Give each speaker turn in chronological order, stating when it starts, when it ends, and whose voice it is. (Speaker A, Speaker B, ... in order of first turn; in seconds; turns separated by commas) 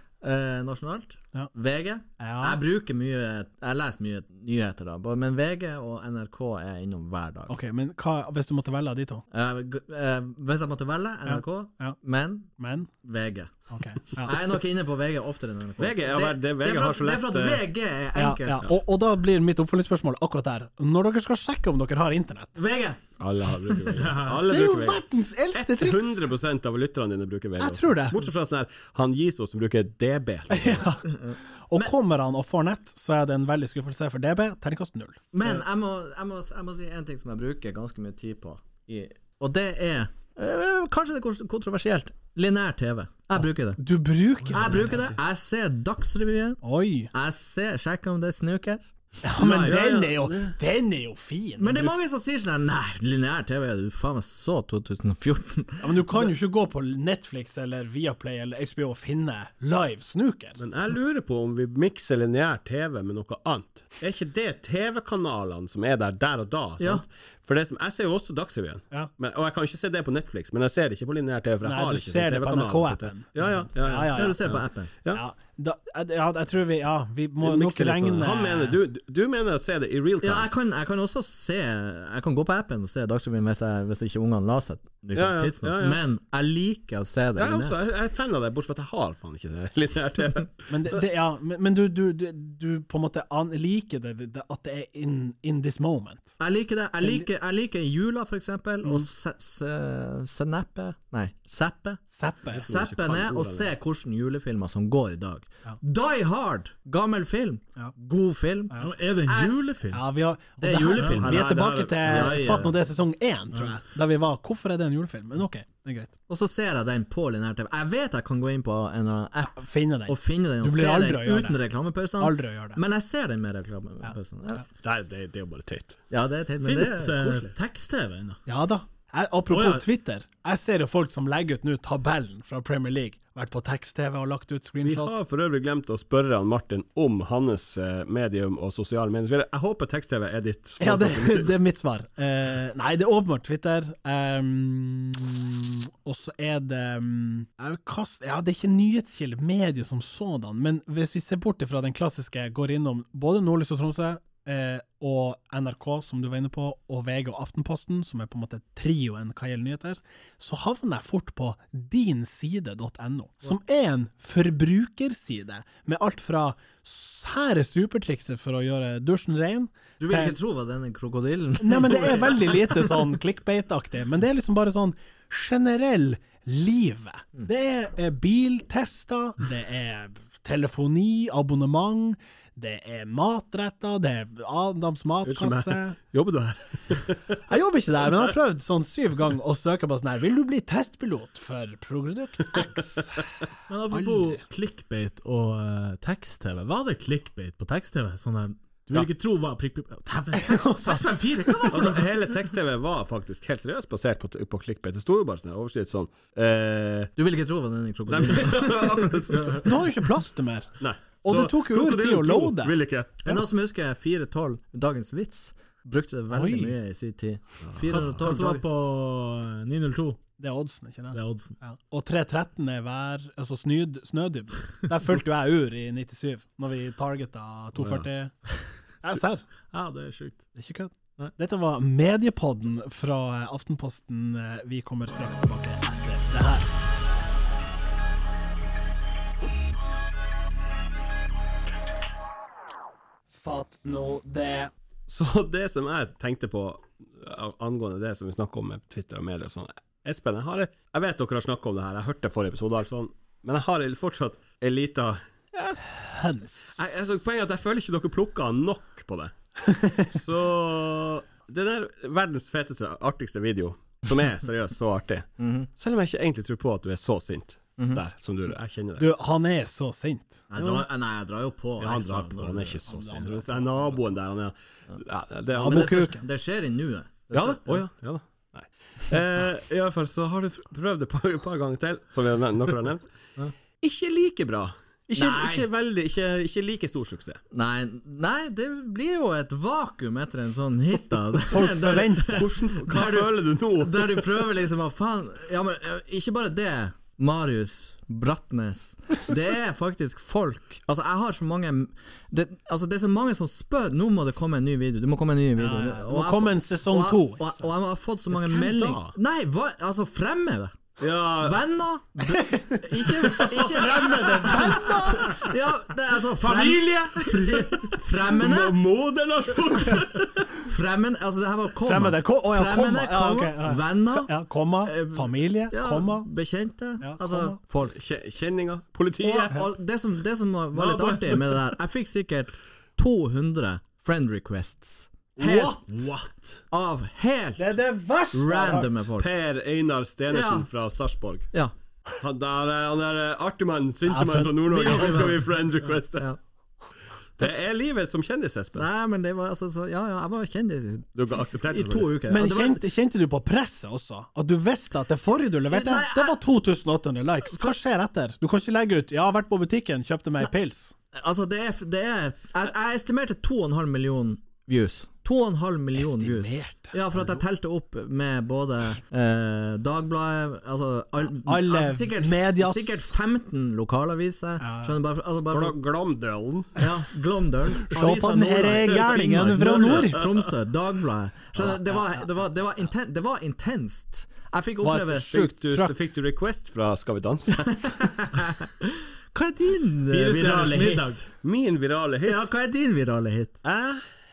Speaker A: 0.2-7.6, Speaker B: 2.2-2.6, Speaker B: 7.5-9.2, Speaker A: 9.3-12.5, Speaker B: 11.3-12.0, Speaker B: 12.6-12.9, Speaker A: 13.0-13.5, Speaker B: 13.7-14.4, Speaker A: 14.1-18.8, Speaker C: 15.8-17.6, Speaker B: 18.2-22.6, Speaker A: 22.6-23.0, Speaker C: 23.2-25.0, Speaker A: 23.6-24.0, Speaker D: 24.0-24.4, Speaker B: 24.4-26.3, Speaker C: 25.5-31.0, Speaker B: 27.6-28.3, Speaker B: 30.5-31.2, Speaker A: 31.1-31.9, Speaker B: 31.7-35.6, Speaker A: 35.3-43.8, Speaker B: 43.8-45.1, Speaker A: 44.5-46.6, Speaker B: 46.6-47.1, Speaker A: 47.1-49.8, Speaker B: 49.2-51.9, Speaker C: 49.4-50.5, Speaker A: 51.6-56.3, Speaker B: 55.8-60.6, Speaker C: 60.6-75.2, Speaker B: 71.6-74.6, Speaker A: 74.1-74.9, Speaker B: 75.1-78.8, Speaker C: 77.4-80.5, Speaker A: 80.2-87.8, Speaker C: 85.2-86.0, Speaker C: 87.4-90.7, Speaker B: 90.7-96.4, Speaker A: 96.4-102.0, Speaker B: 97.0-97.3, Speaker B: 102.1-102.7, Speaker C: 102.5-103.7, Speaker A: 102.7-109.6, Speaker D: 108.8-110.0, Speaker B: 109.9-116.1, Speaker A: 110.6-112.8, Speaker D: 111.0-111.2, Speaker C: 111.2-112.6, Speaker A: 116.3-124.7, Speaker B: 119.6-121.6, Speaker B: 122.2-122.8, Speaker C: 124.8-126.0, Speaker A: 126.1-127.5, Speaker D: 126.6-128.4, Speaker B: 128.5-135.2, Speaker D: 129.5-129.9, Speaker C: 134.8-141.5, Speaker B: 140.8-170.4, Speaker A: 170.0-172.9, Speaker B: 171.6-186.0, Speaker C: 185.2-187.4, Speaker B: 187.5-193.3, Speaker D: 193.7-202.2, Speaker B: 193.9-194.4, Speaker B: 200.3-201.7, Speaker C: 201.7-207.1, Speaker A: 207.2-209.4, Speaker C: 208.1-209.8, Speaker B: 209.6-212.8, Speaker C: 210.8-213.2, Speaker A: 213.2-218.6, Speaker B: 216.3-216.8, Speaker D: 217.9-220.2, Speaker B: 220.4-228.3, Speaker D: 221.1-221.6, Speaker B: 229.0-229.4, Speaker D: 229.7-230.5, Speaker B: 230.6-236.7, Speaker B: 243.3-244.7, Speaker C: 245.1-255.9, Speaker B: 255.9-256.8, Speaker C: 256.7-269.1, Speaker B: 259.7-260.0, Speaker A: 265.4-265.7, Speaker A: 267.8-268.0, Speaker B: 269.0-270.4, Speaker A: 270.5-273.0, Speaker C: 270.6-270.9, Speaker C: 271.8-276.1, Speaker B: 272.9-273.7, Speaker B: 275.5-276.2, Speaker A: 275.6-277.8, Speaker C: 277.3-283.1, Speaker C: 283.8-287.4, Speaker A: 285.1-285.7, Speaker A: 287.5-310.8, Speaker B: 291.5-292.5, Speaker C: 292.3-294.3, Speaker B: 305.6-307.7, Speaker C: 308.3-309.1, Speaker C: 311.0-311.6, Speaker A: 311.4-318.8, Speaker B: 312.3-315.4, Speaker C: 313.3-314.6, Speaker D: 316.4-317.4, Speaker C: 317.4-320.6, Speaker A: 320.6-324.3, Speaker B: 321.9-326.3, Speaker A: 324.8-328.0, Speaker B: 327.0-327.6, Speaker C: 327.9-329.6, Speaker A: 329.2-335.8, Speaker D: 330.7-331.6, Speaker B: 335.4-335.8, Speaker D: 335.9-336.6, Speaker A: 336.7-337.8, Speaker B: 337.6-338.9, Speaker A: 338.3-339.3, Speaker C: 339.2-341.5, Speaker A: 340.3-340.7, Speaker C: 342.2-346.3, Speaker B: 344.1-345.3, Speaker A: 344.6-345.6, Speaker C: 347.4-348.9, Speaker A: 348.8-352.8, Speaker C: 351.1-352.2, Speaker B: 352.3-360.9, Speaker A: 355.7-356.4, Speaker A: 361.1-375.8, Speaker B: 365.9-367.0, Speaker B: 371.4-373.1, Speaker B: 374.6-375.0, Speaker C: 375.5-376.8, Speaker A: 376.8-385.3, Speaker B: 377.8-380.2, Speaker C: 379.5-380.4, Speaker B: 381.6-382.2, Speaker B: 384.8-386.0, Speaker C: 385.3-388.1, Speaker A: 387.7-391.2, Speaker D: 390.1-391.2, Speaker C: 390.8-392.4, Speaker A: 392.2-393.6, Speaker C: 393.6-394.0